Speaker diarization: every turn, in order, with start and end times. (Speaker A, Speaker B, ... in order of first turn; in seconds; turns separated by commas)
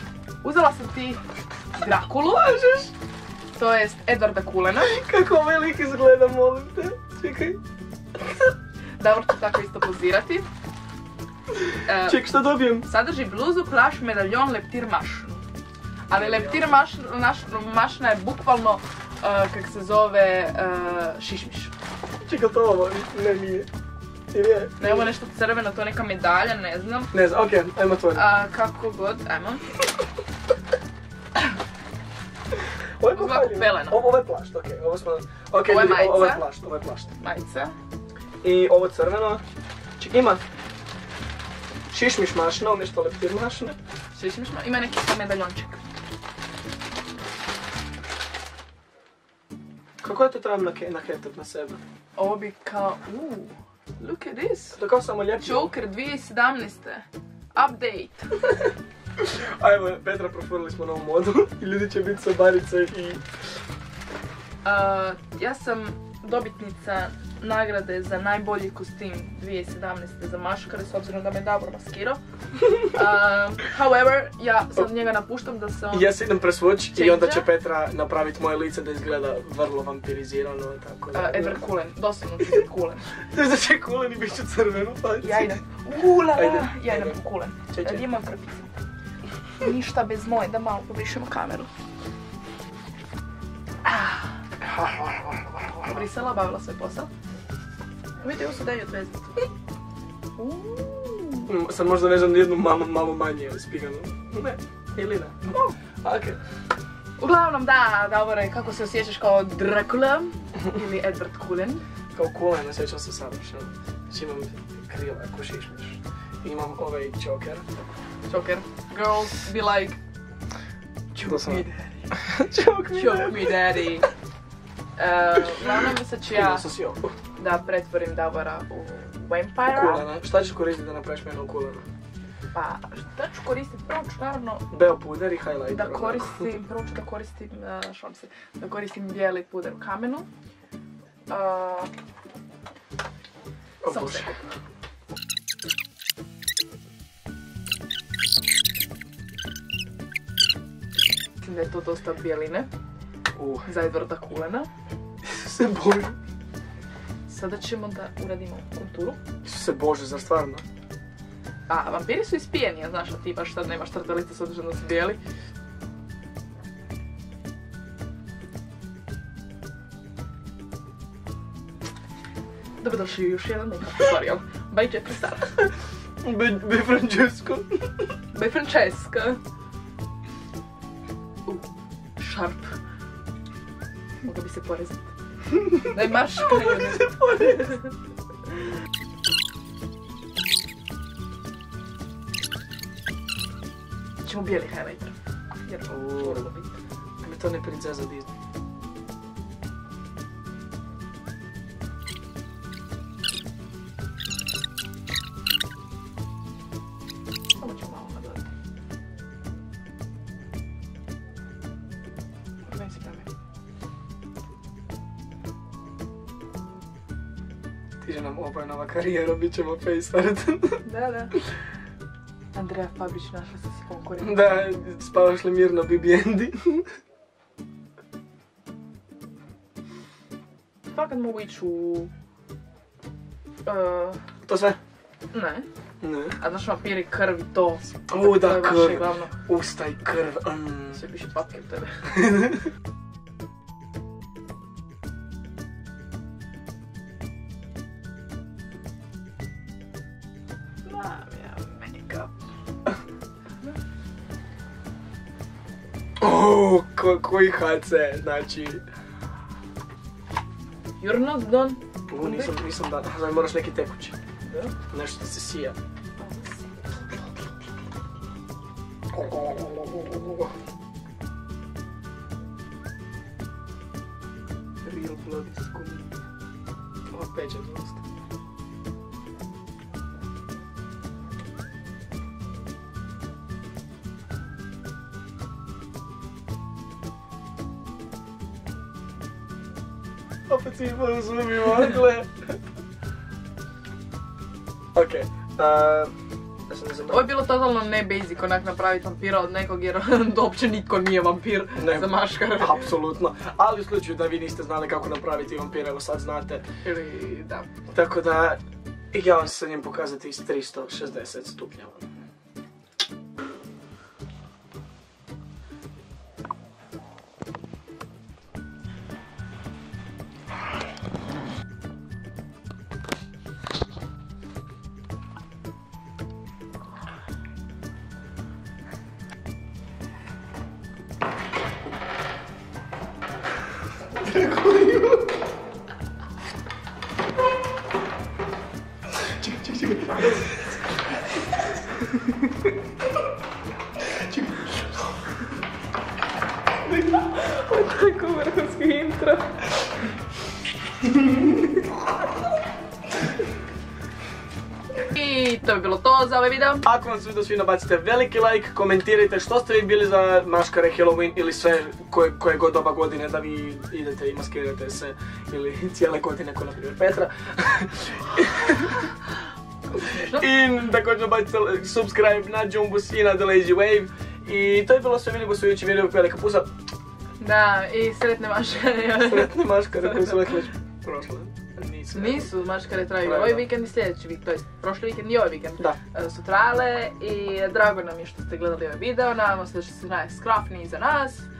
Speaker A: 0.4-1.2, Speaker A: 1.8-2.9, Speaker B: 2.5-2.8, Speaker A: 3.5-4.9, Speaker B: 4.8-7.6, Speaker A: 9.0-10.5, Speaker A: 11.8-12.2, Speaker B: 12.0-12.8, Speaker A: 12.8-15.4, Speaker A: 16.1-21.7, Speaker B: 16.1-16.8, Speaker B: 22.2-23.7, Speaker B: 24.3-25.1, Speaker A: 24.8-27.1, Speaker B: 27.1-28.2, Speaker A: 28.1-29.8, Speaker B: 33.0-37.1, Speaker A: 33.1-34.1, Speaker A: 35.6-36.4, Speaker A: 37.1-37.7, Speaker B: 38.4-39.4, Speaker B: 40.0-40.4, Speaker B: 41.9-43.8, Speaker A: 44.1-45.8, Speaker B: 50.0-51.8, Speaker A: 52.1-54.8, Speaker B: 54.8-55.7, Speaker A: 55.4-58.5, Speaker B: 59.2-63.2, Speaker A: 64.6-72.2, Speaker A: 72.8-76.2, Speaker B: 75.9-81.7, Speaker A: 76.9-77.5, Speaker A: 81.1-83.1, Speaker B: 83.3-85.6, Speaker A: 85.2-88.7, Speaker B: 86.1-87.2, Speaker B: 87.7-88.0, Speaker A: 89.6-91.7, Speaker A: 93.8-94.4, Speaker B: 94.8-95.3, Speaker A: 95.8-97.1, Speaker A: 98.2-99.4, Speaker A: 100.4-101.5, Speaker B: 101.5-106.4, Speaker A: 107.2-111.8, Speaker B: 112.1-117.6, Speaker A: 118.3-120.0, Speaker A: 121.1-122.3, Speaker B: 121.2-123.6, Speaker A: 122.9-124.1, Speaker A: 125.0-126.7, Speaker B: 126.3-127.1, Speaker A: 127.4-130.1, Speaker B: 129.7-131.8, Speaker A: 132.5-134.7, Speaker B: 134.7-136.5, Speaker A: 135.7-140.3, Speaker A: 141.3-141.9, Speaker B: 143.8-144.4, Speaker A: 143.8-144.4, Speaker A: 151.4-152.7, Speaker B: 153.3-153.7, Speaker A: 153.7-154.7, Speaker B: 155.2-156.1, Speaker A: 157.3-159.2, Speaker B: 159.4-160.6, Speaker A: 161.7-165.2, Speaker A: 172.8-175.7, Speaker B: 176.2-177.9, Speaker A: 178.3-179.4, Speaker A: 181.4-182.7, Speaker A: 184.2-185.1, Speaker A: 185.8-187.9, Speaker B: 186.5-187.7, Speaker A: 194.2-195.1, Speaker A: 195.6-196.7, Speaker B: 195.9-196.5, Speaker B: 197.2-198.3, Speaker A: 207.6-208.5, Speaker A: 212.7-213.3, Speaker B: 218.0-220.8, Speaker A: 220.8-221.3, Speaker A: 222.5-224.7, Speaker B: 224.2-226.9, Speaker A: 230.9-232.1, Speaker A: 233.6-234.2, Speaker B: 234.4-234.8, Speaker A: 235.3-235.7, Speaker B: 236.0-236.4, Speaker A: 236.4-239.3, Speaker B: 238.1-241.0, Speaker A: 240.9-242.1, Speaker B: 242.1-242.6, Speaker A: 250.8-252.3, Speaker B: 256.2-258.8, Speaker A: 261.0-262.5, Speaker B: 262.1-264.1, Speaker A: 264.5-264.7, Speaker B: 264.9-265.8, Speaker A: 266.2-267.2, Speaker B: 269.1-270.5, Speaker B: 274.8-276.2, Speaker B: 277.1-278.0, Speaker B: 290.5-292.6, Speaker B: 294.9-296.1, Speaker B: 296.7-297.3, Speaker A: 297.1-303.0, Speaker B: 301.7-306.6, Speaker A: 306.8-307.7, Speaker B: 307.9-308.6, Speaker B: 309.1-312.0, Speaker B: 334.2-335.1, Speaker B: 339.4-340.3, Speaker A: 347.0-349.6, Speaker A: 355.0-356.8, Speaker B: 356.8-369.1, Speaker B: 369.9-376.7, Speaker A: 370.0-370.4, Speaker A: 377.4-380.6, Speaker B: 379.2-382.5, Speaker A: 382.1-391.5, Speaker B: 383.2-383.7